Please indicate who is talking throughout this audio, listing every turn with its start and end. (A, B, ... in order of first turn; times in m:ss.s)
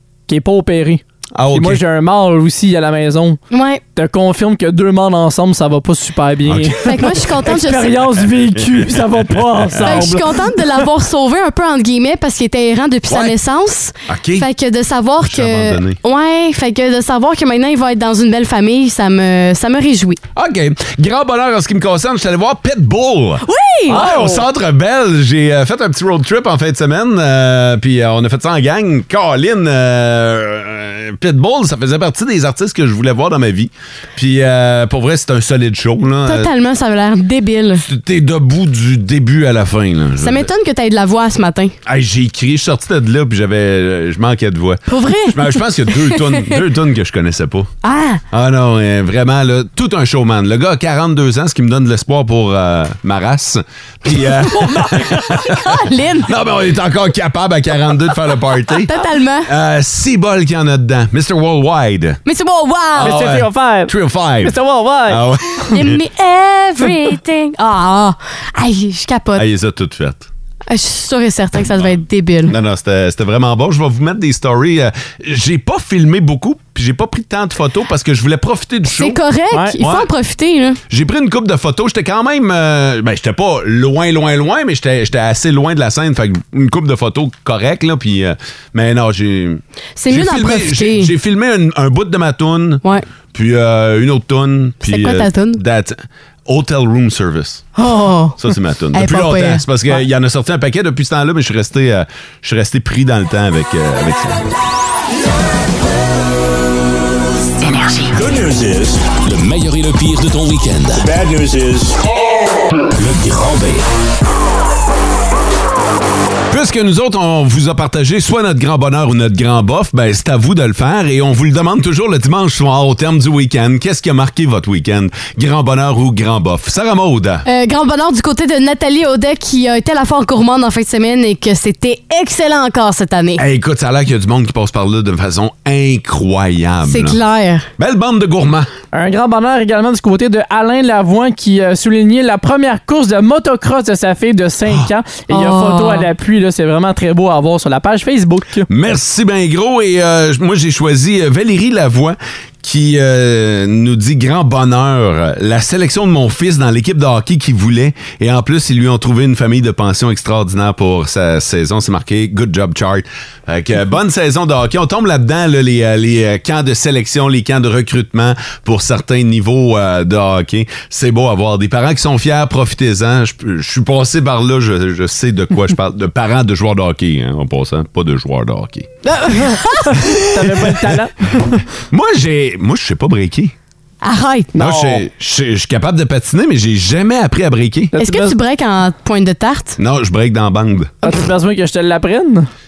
0:00.3-0:03.4 A
0:01.3-0:01.8 B
0:03.5-0:03.8 C
0:04.0-0:10.3 A
0:06.4-0:06.8 B
0:06.8-0:08.0 C
0:08.5-0:10.1 B
0:09.8-0:20.2 C
0:13.1-0:13.4 B
0:14.1-0:14.5 B
0:15.2-0:16.0 B
0:20.4-0:36.5 B
0:23.4-0:24.0 C
0:23.9-0:24.4 A
0:36.3-0:37.8 C
0:37.8-0:40.5 B
0:40.2-0:41.7 C
0:41.8-0:47.7 B
0:44.9-0:46.6 C
0:47.8-0:48.2 C
0:48.3-0:58.9 B
0:54.4-0:55.4 A
0:55.5-0:56.3 C
0:58.8-0:59.5 C
0:59.4-1:02.2 B
1:02.3-1:03.1 C
1:03.0-1:05.2 A
1:03.0-1:06.0 B
1:05.7-1:09.4 C
1:09.4-1:10.3 B
1:10.7-1:12.6 C
1:12.5-1:19.2 B
1:18.8-1:20.8 C
1:19.5-1:19.8 A
1:19.8-1:20.1 B
1:20.9-1:37.6 B
1:30.0-1:31.1 C
1:34.9-1:35.6 C
1:37.8-1:38.4 C
1:38.4-1:44.5 B
1:38.9-1:39.6 C
1:48.1-1:52.0 D
1:52.9-1:53.8 D
1:56.5-2:07.4 B
2:07.4-2:13.4 C
2:13.4-2:17.2 B
2:16.9-2:17.7 C
2:17.8-2:18.7 B
2:18.9-2:28.7 A
2:25.3-2:26.1 C
2:28.7-2:58.9 B
2:59.2-3:01.6 A
2:59.3-3:00.0 C
3:00.0-3:00.7 B
3:01.9-3:03.5 B
3:04.0-3:04.5 C
3:04.5-3:05.0 A
3:04.6-3:07.9 B
3:07.9-3:08.4 A
3:08.0-3:09.8 C
3:09.8-3:11.1 B
3:11.0-3:12.5 A